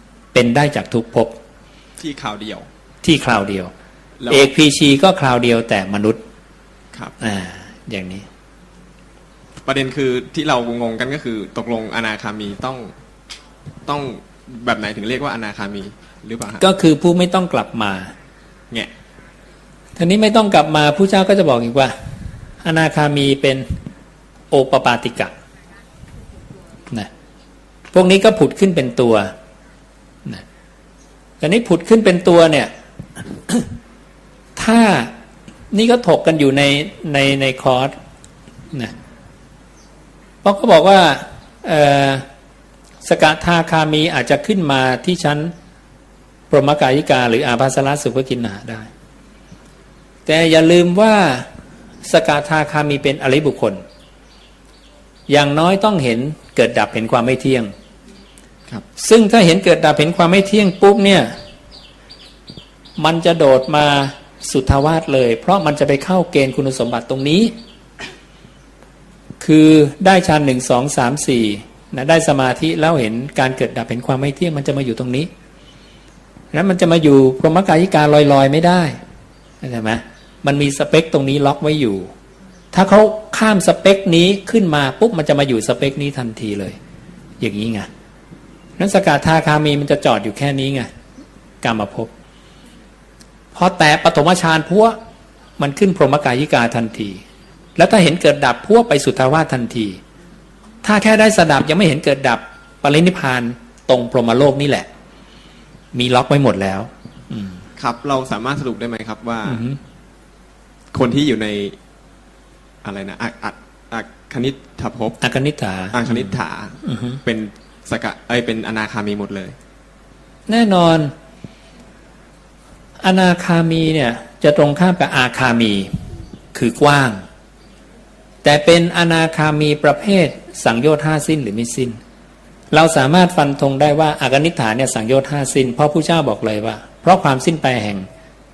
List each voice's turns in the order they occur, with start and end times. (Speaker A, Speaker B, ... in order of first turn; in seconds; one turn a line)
Speaker A: 0.3-1.3
Speaker B: 2.0-2.7
Speaker A: 3.0-3.7
Speaker B: 4.2-4.5
Speaker A: 4.3-6.2
Speaker A: 7.2-8.2
Speaker B: 9.7-12.9
Speaker B: 13.9-16.6
Speaker A: 16.6-18.1
Speaker A: 20.0-21.9
Speaker A: 22.6-23.7
Speaker A: 24.5-25.3
Speaker A: 27.9-29.3
Speaker A: 31.4-32.7
Speaker A: 33.4-33.6
Speaker A: 34.6-35.1
Speaker A: 35.7-37.9
Speaker A: 40.4-42.2
Speaker A: 43.0-45.5
Speaker A: 46.5-48.9
Speaker A: 50.3-51.5
Speaker A: 52.0-53.8
Speaker A: 55.3-57.7
Speaker A: 59.0-61.3
Speaker A: 63.0-67.5
Speaker A: 69.4-75.3
Speaker A: 76.5-79.0
Speaker A: 79.6-82.1
Speaker A: 82.7-86.8
Speaker A: 87.4-87.9
Speaker A: 88.8-90.9
Speaker A: 91.6-92.1
Speaker A: 93.5-95.0
Speaker A: 95.6-97.2
Speaker A: 97.8-100.0
Speaker A: 100.8-104.9
Speaker A: 105.9-107.6
Speaker B: 107.8-109.6
Speaker A: 109.5-109.8
Speaker B: 110.9-111.8
Speaker B: 112.8-115.2
Speaker A: 115.2-116.2
Speaker B: 115.9-119.6
Speaker A: 116.8-117.2
Speaker A: 120.5-121.1
Speaker A: 123.0-125.9
Speaker A: 126.5-127.2
Speaker A: 128.4-132.0
Speaker A: 132.7-138.1